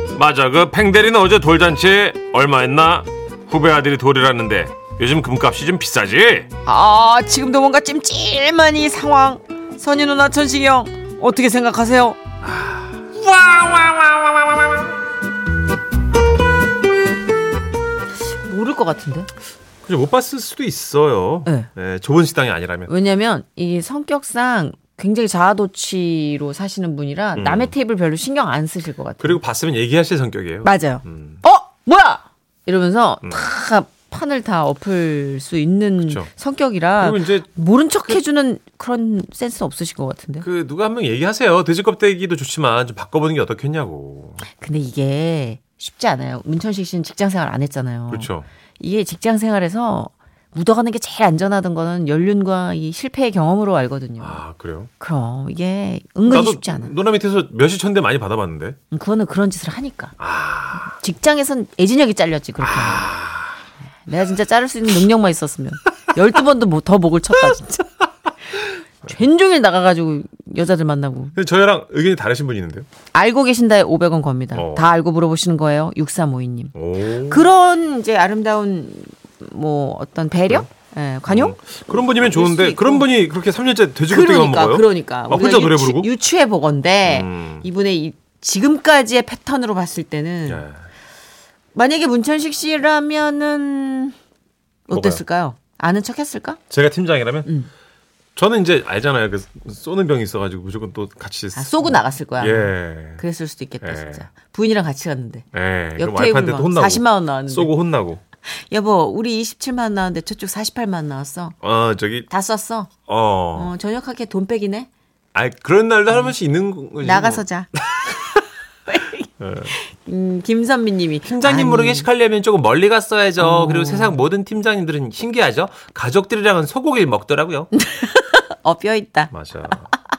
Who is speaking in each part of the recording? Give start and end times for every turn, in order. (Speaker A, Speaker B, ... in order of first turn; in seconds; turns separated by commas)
Speaker A: 0.1-6.5, Speaker B: 6.6-12.2, Speaker A: 12.4-14.7, Speaker B: 18.4-19.3, Speaker A: 19.9-22.9, Speaker B: 22.9-29.4, Speaker A: 27.4-27.7, Speaker A: 29.2-31.4, Speaker B: 30.6-40.4, Speaker A: 36.0-36.3, Speaker A: 37.0-37.5, Speaker A: 40.4-44.4, Speaker B: 44.5-54.4, Speaker A: 48.1-48.5, Speaker A: 54.2-54.9, Speaker B: 55.0-56.9, Speaker A: 56.3-58.8, Speaker B: 58.9-60.1, Speaker A: 60.2-60.9, Speaker B: 60.7-63.1, Speaker A: 62.6-63.5, Speaker B: 64.1-67.9, Speaker B: 69.0-71.3, Speaker A: 71.3-72.9, Speaker B: 73.1-83.1, Speaker A: 74.5-74.9, Speaker A: 76.8-77.5, Speaker A: 81.3-86.1, Speaker B: 84.1-90.6, Speaker A: 87.0-87.6, Speaker A: 90.5-90.8, Speaker B: 91.7-94.1, Speaker B: 94.9-96.6, Speaker A: 94.9-95.2, Speaker A: 96.7-97.5, Speaker A: 98.3-103.2, Speaker B: 101.5-107.7, Speaker A: 103.8-104.2, Speaker A: 105.5-108.2, Speaker B: 108.5-111.6, Speaker A: 111.6-112.3, Speaker B: 112.3-112.9, Speaker A: 113.1-113.7, Speaker B: 113.5-114.9, Speaker A: 115.3-117.4, Speaker B: 117.0-117.7, Speaker B: 118.9-122.1, Speaker A: 119.4-119.7, Speaker A: 121.2-127.7, Speaker B: 123.4-124.2, Speaker B: 127.7-129.3, Speaker A: 129.3-129.9